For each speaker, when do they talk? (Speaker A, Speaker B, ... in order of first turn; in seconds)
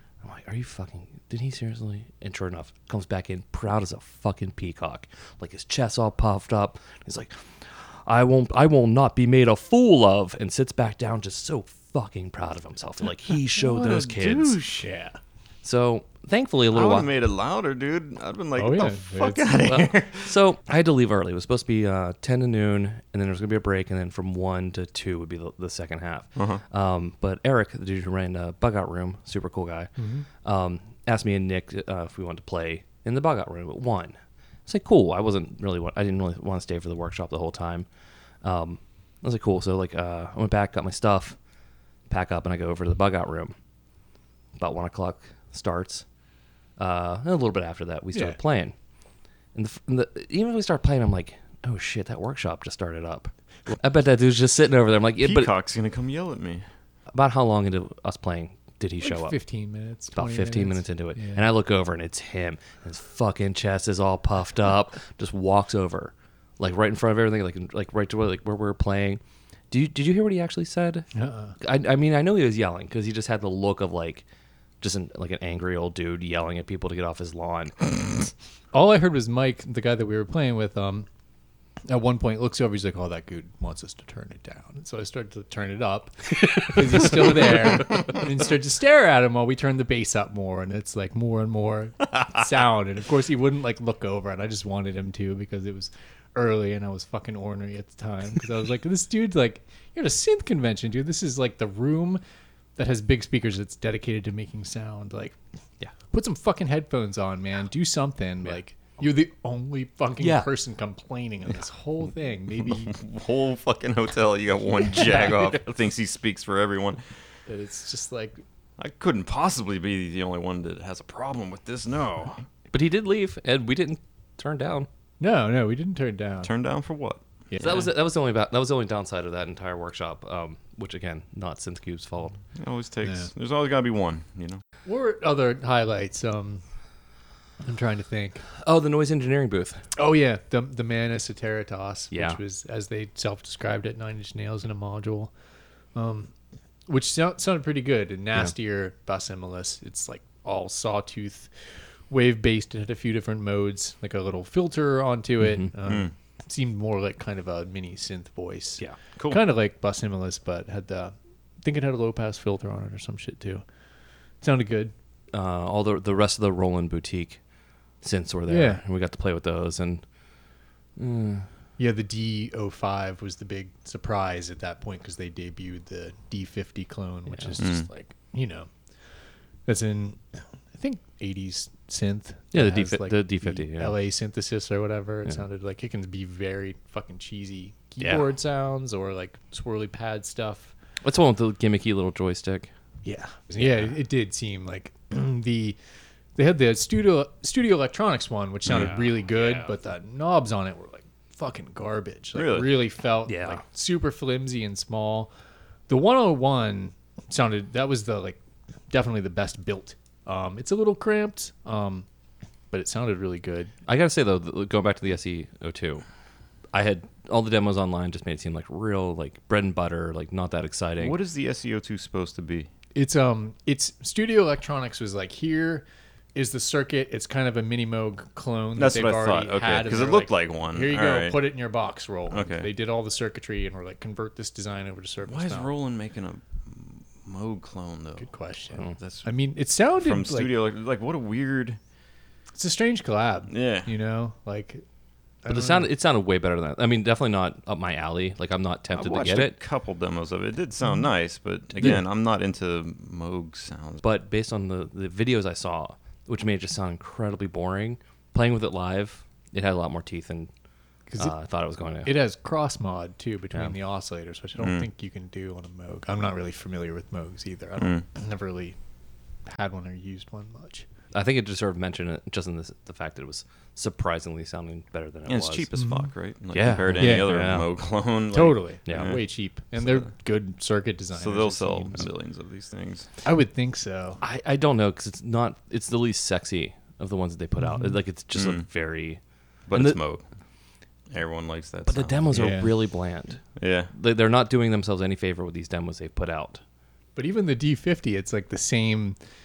Speaker A: 0.2-14.6, 15.6-17.1, 19.6-29.9, 30.4-37.9, 38.4-41.4, 42.1-43.5, 44.6-46.0, 46.8-48.7, 49.5-55.5, 57.1-59.4, 60.1-69.2, 69.7-71.1, 71.6-74.2, 74.8-77.9, 110.2-110.5, 122.7-124.9, 127.6-132.4, 138.6-139.9, 142.1-142.4, 155.4-155.7, 165.3-167.4, 168.0-170.0, 171.0-171.5, 177.3-177.6, 182.5-183.9, 188.0-188.2, 191.0-192.7, 193.6-193.9, 198.7-199.7, 203.2-203.6, 213.9-216.0, 216.7-221.2, 245.5-249.6, 254.0-260.5, 261.2-262.1, 271.1-275.7, 276.5-277.7, 278.9-279.1, 284.2-289.2, 289.7-290.0, 291.9-296.6
Speaker B: 13.6-15.2, 18.6-19.5, 30.0-30.2, 59.0-61.5, 71.1-71.6, 78.7-81.1, 81.9-102.2, 102.8-105.4, 106.1-112.9, 117.5-118.4, 125.2-126.5, 127.5-127.8, 133.0-133.3, 134.8-136.6, 137.6-138.5, 139.9-145.3, 145.9-146.3, 146.9-163.6, 164.4-164.9, 168.5-168.8, 171.8-178.7, 179.7-190.7, 193.0-195.8, 196.3-205.3, 205.9-208.4, 208.9-212.1, 212.7-213.7, 222.9-235.7, 238.2-240.5, 242.6-244.8, 245.4-245.9, 262.0-268.8, 269.4-270.9, 275.8-276.1, 276.9-277.4, 278.3-282.1, 283.2-284.2, 287.6-288.0, 292.3-292.7, 297.1-299.2
Speaker C: 14.2-14.5, 16.7-20.3, 26.4-26.6, 55.2-56.6, 112.6-117.2, 118.8-122.4, 126.4-127.2, 132.5-134.6, 155.8-156.1, 159.2-159.4, 177.6-177.9, 202.3-202.8, 221.0-222.7, 228.8-231.4, 232.3-232.7, 235.2-239.3, 240.0-241.8, 243.5-243.9, 248.9-254.0, 264.6-264.9, 267.8-268.0, 275.3-279.2, 279.8-280.1, 281.1-283.1, 288.3-288.7, 289.7-290.3, 291.1-292.6, 293.6-293.9